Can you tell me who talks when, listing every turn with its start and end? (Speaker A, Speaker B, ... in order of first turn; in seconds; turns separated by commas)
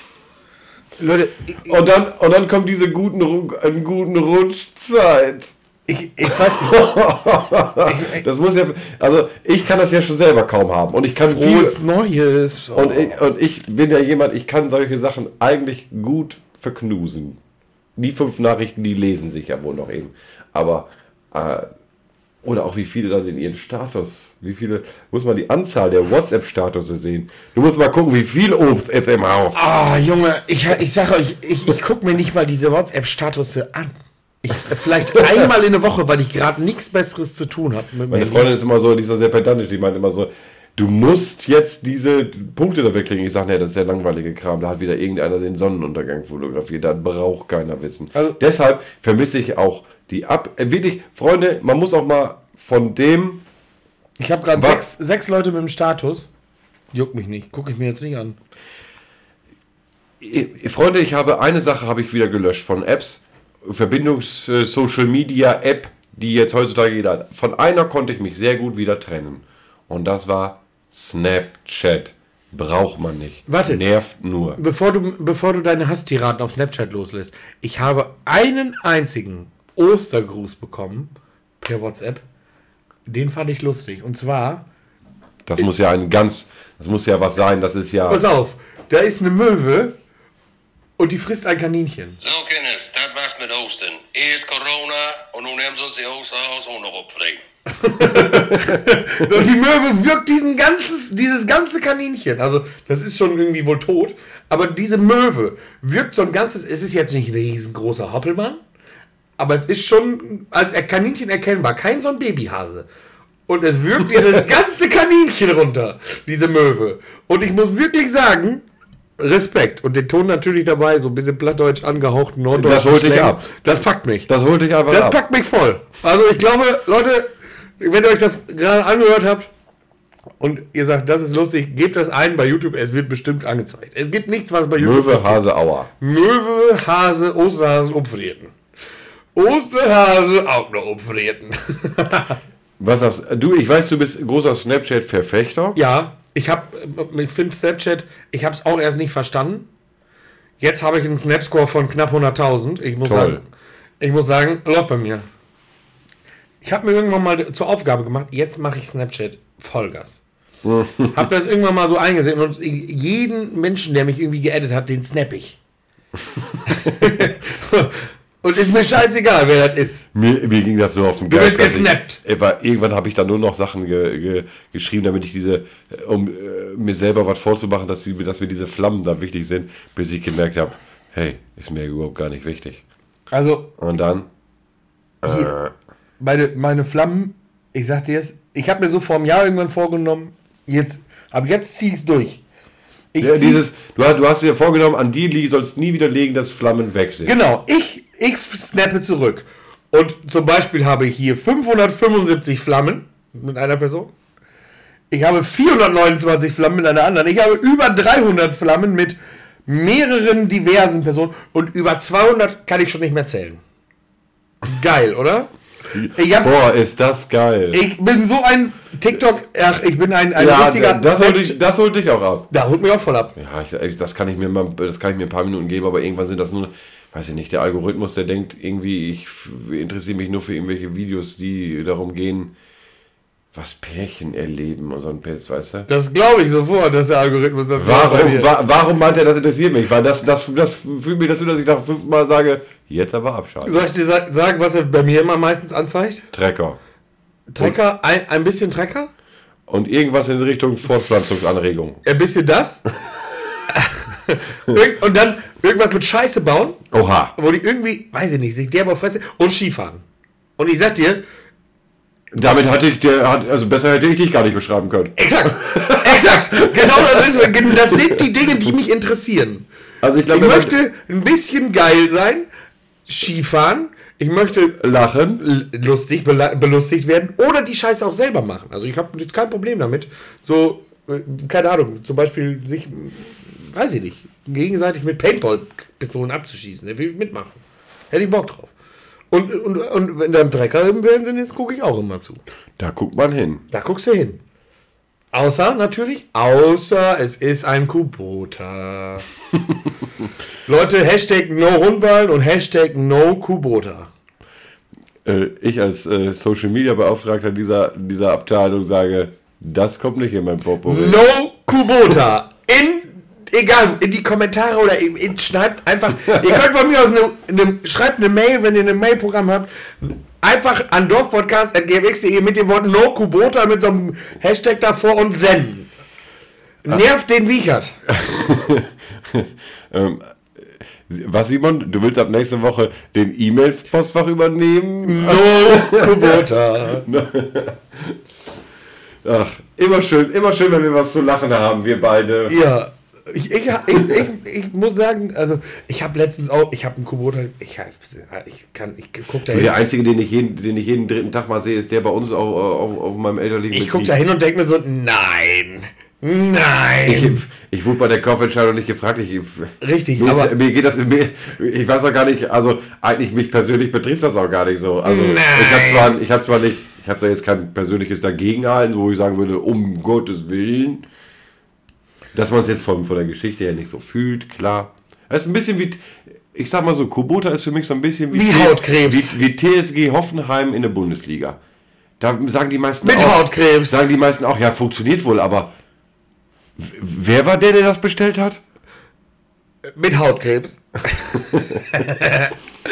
Speaker A: 1.0-1.8, Speaker B: 1.6-5.5, Speaker A: 5.9-6.9, Speaker B: 6.3-11.8, Speaker A: 7.9-8.2, Speaker A: 11.1-13.2, Speaker B: 12.7-17.4, Speaker B: 18.0-21.7, Speaker B: 22.4-29.6, Speaker A: 29.5-38.5, Speaker B: 38.1-53.4, Speaker A: 54.2-56.3, Speaker B: 54.5-54.8, Speaker A: 56.9-58.4, Speaker B: 60.2-74.6, Speaker A: 73.5-73.8, Speaker A: 74.6-82.2, Speaker A: 83.1-84.7, Speaker B: 85.5-88.2, Speaker A: 88.1-90.0, Speaker A: 91.0-92.2, Speaker C: 92.2-97.4, Speaker A: 97.8-108.6, Speaker B: 98.1-98.7, Speaker A: 109.4-112.9, Speaker A: 113.5-118.6, Speaker A: 119.2-124.3, Speaker B: 122.5-123.5, Speaker B: 124.3-125.2, Speaker A: 124.9-129.5, Speaker A: 130.4-135.4, Speaker B: 134.8-135.9, Speaker A: 136.0-138.5, Speaker A: 139.3-142.4, Speaker B: 142.8-145.8, Speaker A: 145.7-149.7, Speaker A: 150.6-153.4, Speaker B: 153.0-153.4, Speaker A: 154.0-155.2, Speaker A: 156.6-160.2, Speaker B: 160.6-161.2, Speaker A: 161.1-165.6, Speaker A: 166.7-170.1, Speaker B: 170.1-182.8, Speaker A: 171.3-172.2, Speaker A: 183.3-183.7, Speaker B: 183.8-184.3, Speaker B: 185.2-185.7, Speaker A: 185.2-185.5, Speaker A: 186.2-192.4, Speaker A: 193.1-193.7, Speaker B: 193.2-197.3, Speaker A: 197.2-204.1, Speaker A: 205.1-213.6, Speaker A: 214.6-215.5, Speaker B: 215.9-217.8, Speaker A: 216.1-216.5, Speaker A: 217.7-221.6, Speaker B: 220.3-222.5, Speaker A: 222.5-223.3, Speaker B: 223.3-232.5, Speaker B: 233.5-235.9, Speaker A: 235.9-238.5, Speaker B: 237.8-243.8, Speaker A: 243.6-246.2, Speaker B: 246.3-246.8, Speaker A: 247.5-249.1, Speaker B: 249.7-252.0, Speaker A: 252.0-252.8, Speaker A: 253.7-256.8, Speaker B: 256.9-257.3, Speaker A: 257.4-260.0, Speaker A: 260.6-261.2, Speaker B: 262.3-268.2, Speaker A: 265.2-269.6, Speaker B: 270.0-270.7, Speaker A: 270.3-272.5, Speaker A: 273.1-274.8, Speaker B: 274.8-275.4, Speaker A: 275.4-288.7, Speaker A: 289.3-292.4, Speaker B: 292.8-293.6, Speaker A: 293.7-294.4, Speaker A: 295.3-299.2, Speaker A: 300.6-304.1, Speaker B: 305.2-311.2, Speaker A: 310.8-325.9, Speaker A: 326.8-328.0, Speaker B: 328.1-336.4, Speaker A: 335.0-337.1, Speaker B: 337.0-338.2, Speaker B: 339.2-342.6, Speaker A: 342.5-349.7, Speaker B: 349.5-354.1, Speaker A: 353.7-357.4, Speaker B: 357.0-371.1, Speaker A: 359.8-360.5, Speaker A: 365.0-366.1, Speaker B: 372.3-381.6, Speaker A: 378.3-379.4, Speaker B: 382.2-385.7, Speaker A: 383.0-384.0, Speaker B: 386.8-388.6, Speaker A: 389.9-392.5, Speaker B: 391.4-391.8